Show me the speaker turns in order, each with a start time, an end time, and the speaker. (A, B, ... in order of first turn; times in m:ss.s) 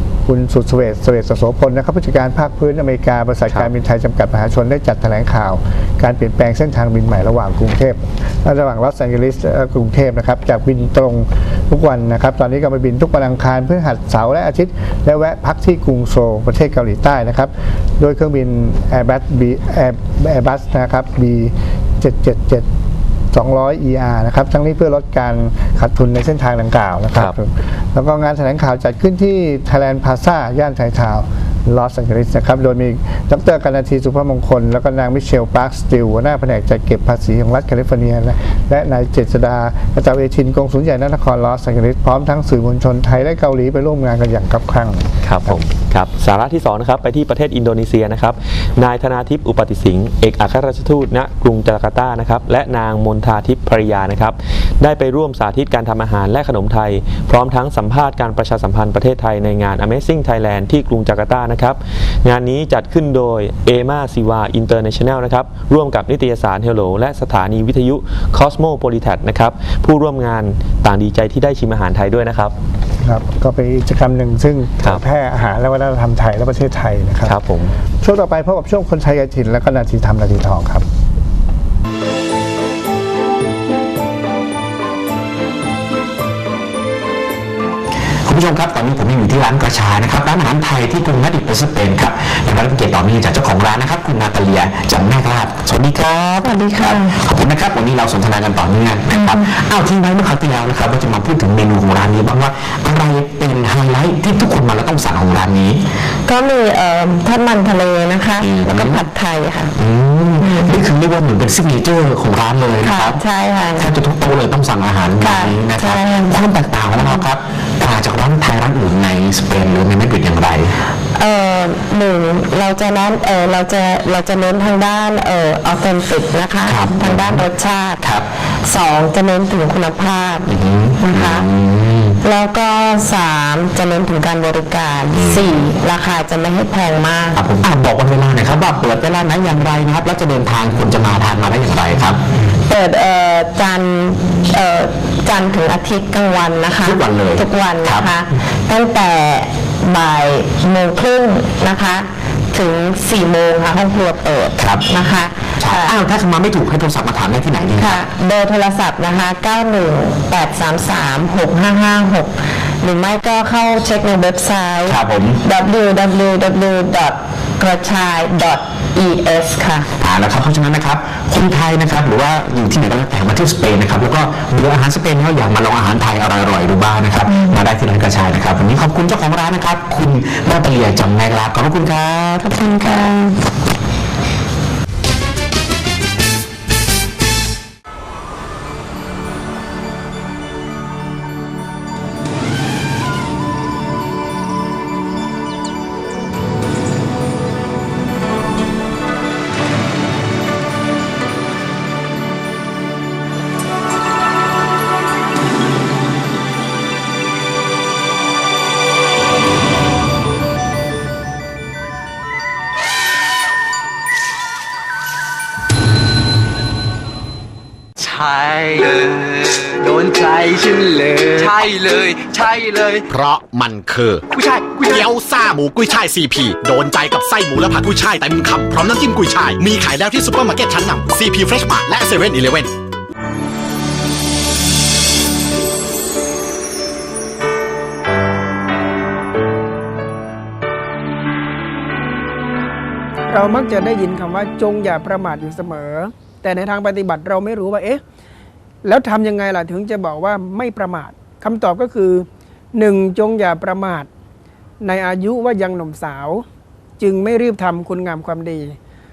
0:00.3-0:22.7 A
0:03.5-0:03.7 B
0:23.3-0:45.6 A
0:45.2-1:12.6 B
1:13.0-1:17.4 A
1:17.2-1:17.7 B
1:17.9-1:20.9 A
1:28.2-1:45.8 C
1:36.4-1:37.2 D
1:39.1-1:39.5 D
1:46.3-1:49.7 D
1:48.4-1:49.1 C
1:49.8-1:53.2 C
1:50.4-1:50.7 D
1:52.8-1:53.9 D
1:53.8-2:00.8 C
1:55.2-1:57.3 D
2:01.1-2:11.5 D
2:06.6-2:07.5 C
2:08.0-2:08.3 C
2:10.5-2:12.2 C
2:12.2-2:17.4 D
2:15.1-2:15.6 C
2:17.4-2:22.2 C
2:22.6-2:36.0 D
2:26.7-2:28.2 C
2:34.6-2:34.9 C
2:35.6-2:38.1 C
2:37.8-2:49.9 D
2:44.8-2:45.4 C
2:50.0-3:02.5 C
3:02.4-3:03.4 D
3:38.0-3:43.1 E
3:43.1-3:52.7 F
3:44.4-3:44.9 E
4:03.3-4:08.0 G
4:08.8-4:14.1 G
4:14.8-4:16.4 G
4:17.0-4:18.8 G